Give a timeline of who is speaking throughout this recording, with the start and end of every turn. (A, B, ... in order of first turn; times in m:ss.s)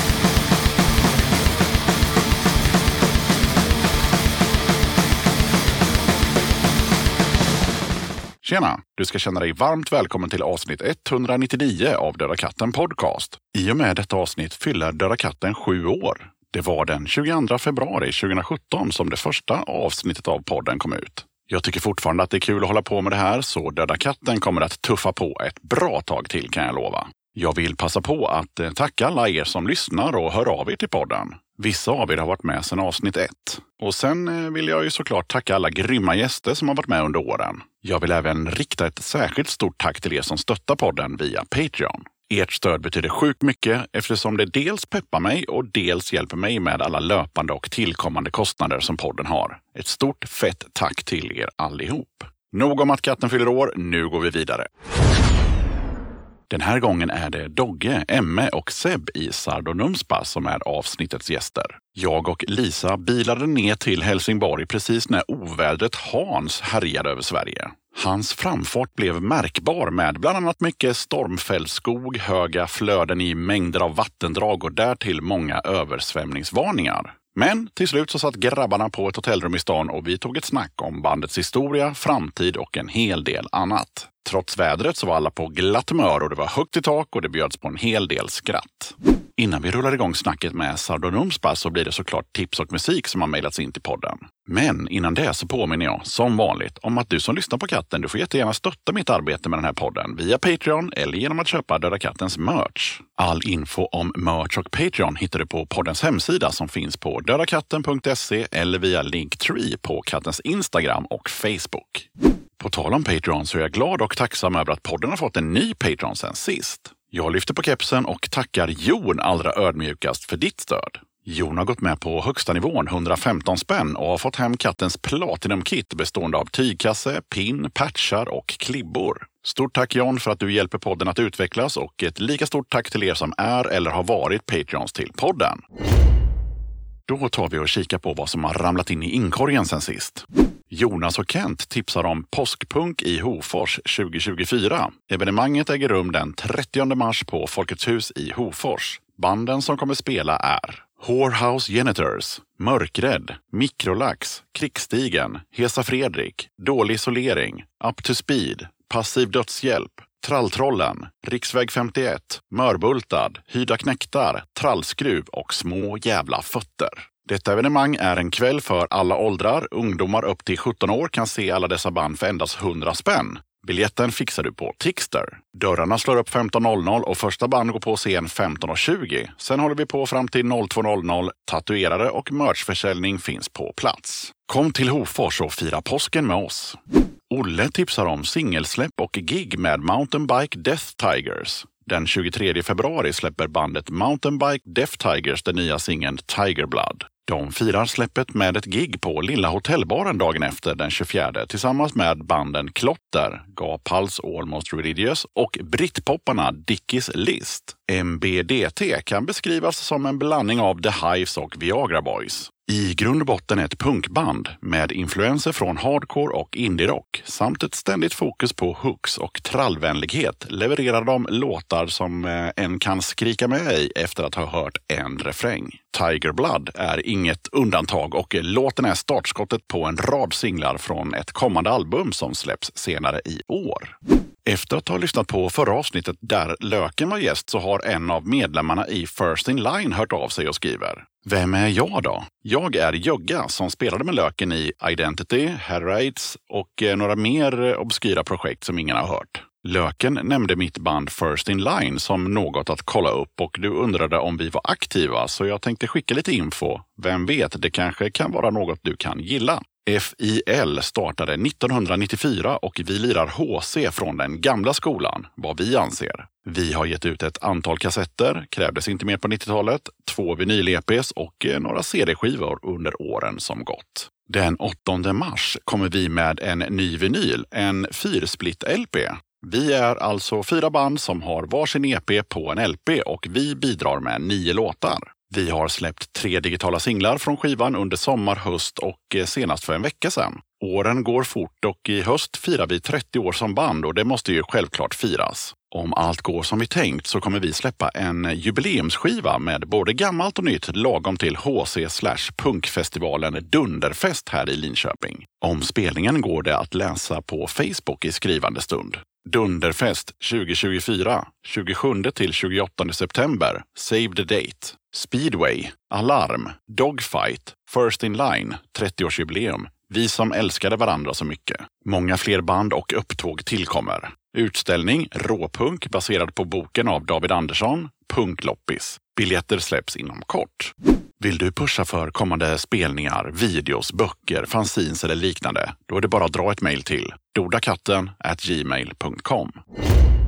0:08.4-0:54.7 A
0:56.5-1:52.0 A
1:52.6-2:15.6 A
2:17.1-3:06.8 A
3:07.3-5:39.6 A